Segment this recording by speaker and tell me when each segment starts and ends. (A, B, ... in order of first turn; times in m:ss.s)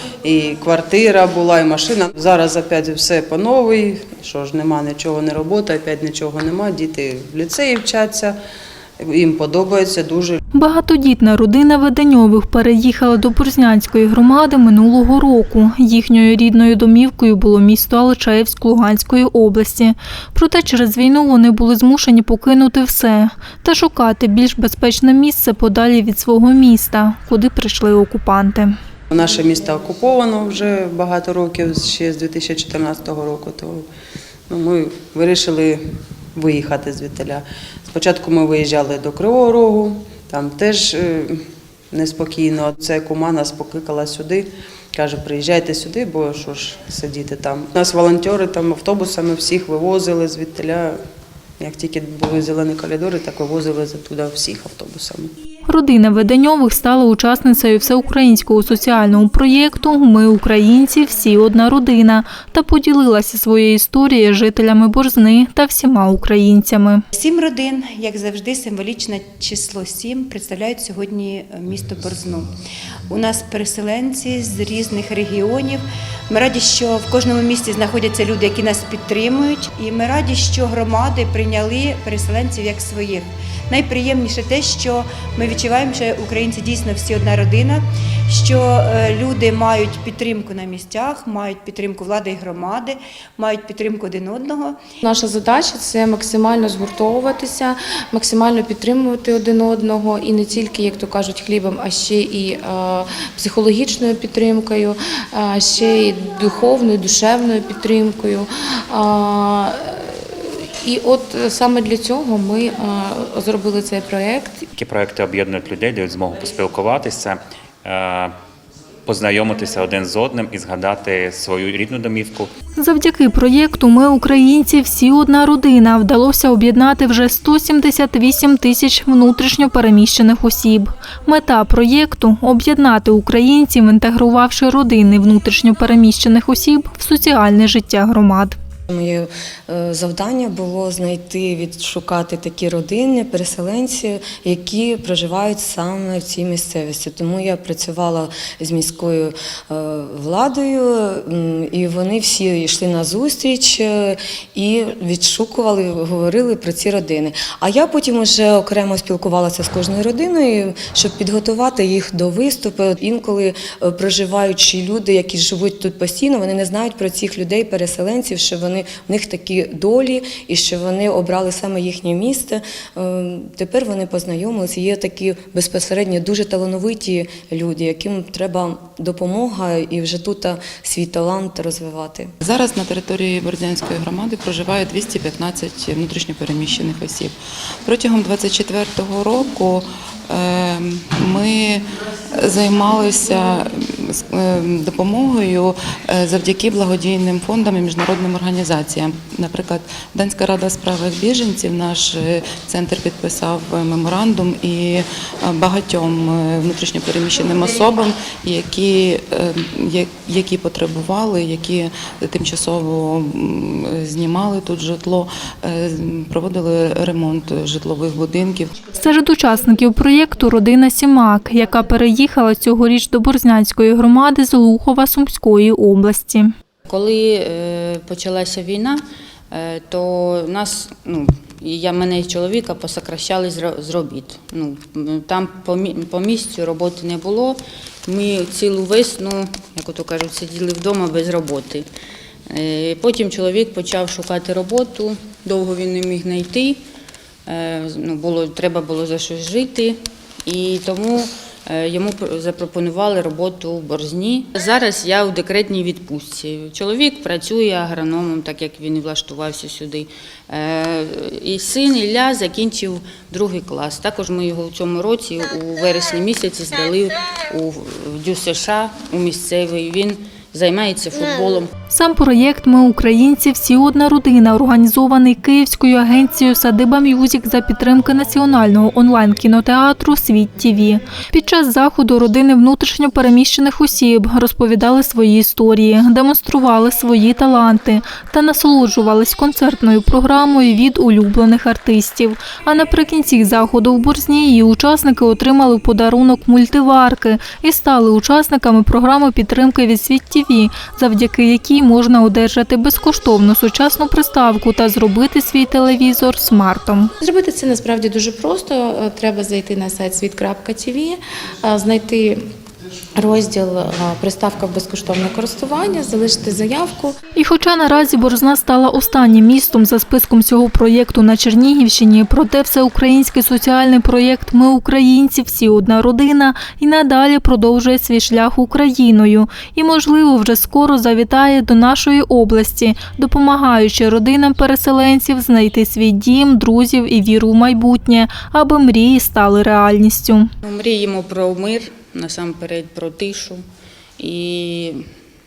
0:00.2-0:08.4 A
0:09.0-0:10.4 A
0:10.5-0:28.8 B
0:29.1-0:33.8 A
0:34.5-0:35.8 A
0:36.3-0:41.4 A
0:41.9-0:51.0 A
0:51.6-0:55.3 A
0:55.7-1:07.0 B
1:07.1-1:12.5 C
1:13.1-1:34.8 C
1:35.0-1:54.7 D
1:54.8-1:58.3 E
1:59.1-2:02.5 E
2:02.8-2:18.6 B
2:18.9-3:02.3 F
3:02.4-3:07.3 G
3:07.8-3:38.8 G
3:38.9-3:46.5 B
3:46.9-4:01.9 H
4:02.5-4:06.8 H
4:07.5-4:31.7 H
4:31.9-5:07.1 B
5:07.2-5:12.4 D
5:13.2-5:17.2 D
5:17.4-5:40.5 B
5:40.6-5:43.6 H
5:44.2-5:45.0 H